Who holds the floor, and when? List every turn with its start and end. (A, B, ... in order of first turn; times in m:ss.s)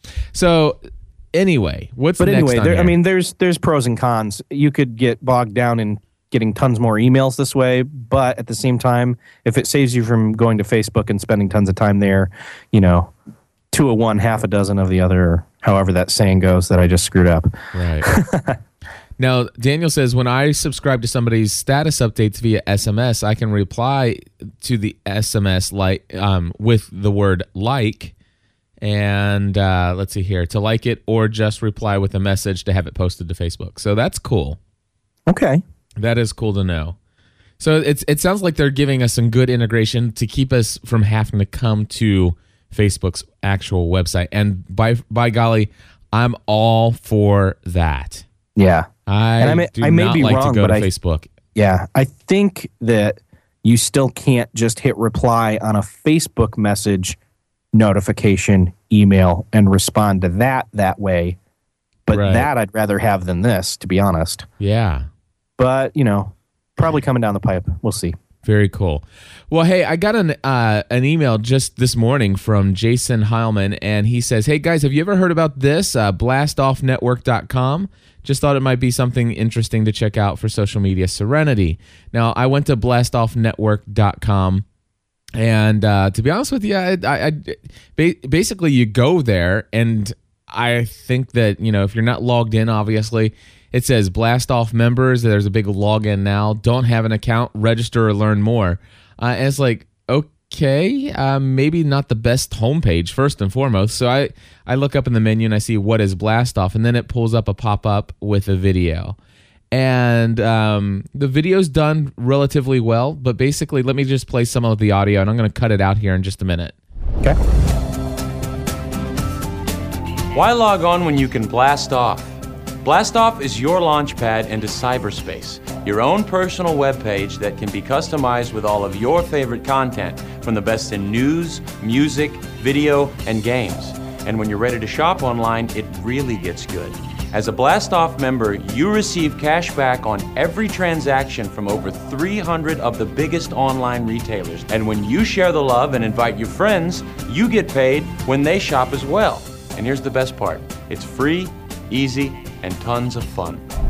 0:00.3-0:00.8 A
0:01.3-0:03.0 A
0:02.2-0:13.1 B
0:13.7-0:17.5 B
0:17.7-0:18.1 A
0:18.0-0:18.6 B
0:19.2-0:28.1 A
0:28.8-0:34.6 A
0:35.3-0:35.6 B
0:36.0-0:37.0 A
0:37.6-0:48.2 A
0:48.6-0:48.9 B
0:49.1-0:51.3 A
0:49.4-0:50.9 B
0:51.6-0:57.2 B
0:57.7-1:01.4 B
1:02.1-1:04.5 B
1:02.1-1:02.5 A
1:04.6-1:05.1 A
1:05.6-1:08.1 B
1:08.4-1:24.6 A
1:25.4-1:49.2 A
1:49.7-1:56.8 A
2:00.3-2:33.6 C